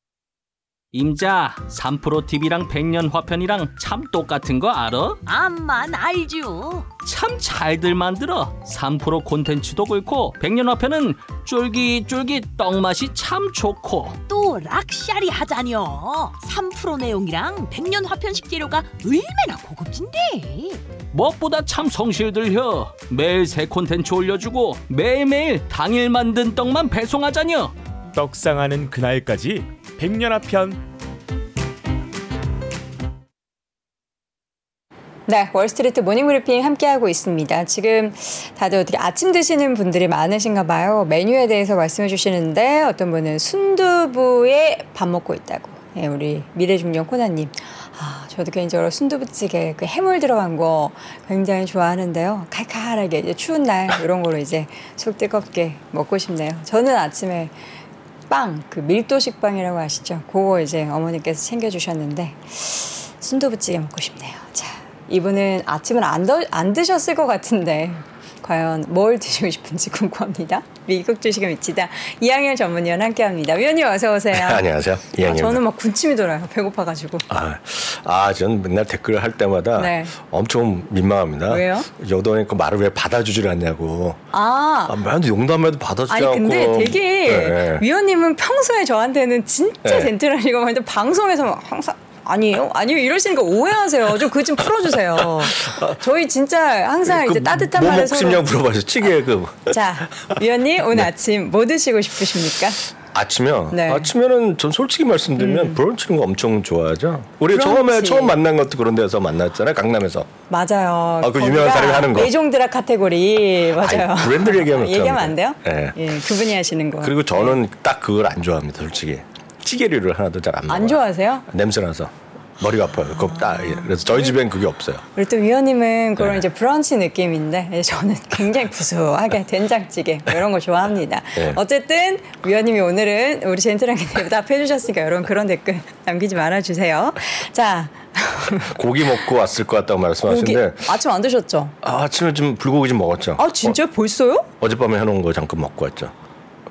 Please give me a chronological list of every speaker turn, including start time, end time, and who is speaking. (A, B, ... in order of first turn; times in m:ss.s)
0:00.9-0:05.2 A
0:05.3-0:06.9 B
0:07.0-0:14.2 A
0:14.3-0:20.8 B
0:21.1-0:27.8 A
0:28.1-0:30.8 C
0:35.3-0:57.5 D
0:58.3-1:14.6 D
1:14.3-1:15.6 E
1:15.2-1:17.3 D
1:17.3-1:24.2 E
1:19.8-1:20.2 D
1:21.5-1:21.9 D
1:24.3-1:25.0 D
1:24.9-1:27.8 E
1:26.1-1:38.4 D
1:29.8-1:30.1 E
1:35.4-1:36.0 E
1:37.1-1:40.3 E
1:39.7-1:42.9 D
1:43.1-1:50.3 E
1:43.7-1:44.1 D
1:45.4-1:45.8 D
1:47.5-1:48.4 D
1:50.5-1:57.6 D
1:51.2-1:52.3 E
1:53.8-1:56.2 E
1:57.0-2:05.0 E
2:00.7-2:01.5 D
2:03.1-2:04.4 D
2:05.1-2:18.7 D
2:18.6-2:20.9 E
2:20.2-2:21.8 D
2:21.8-2:23.8 E
2:23.4-2:24.5 D
2:24.6-2:26.1 E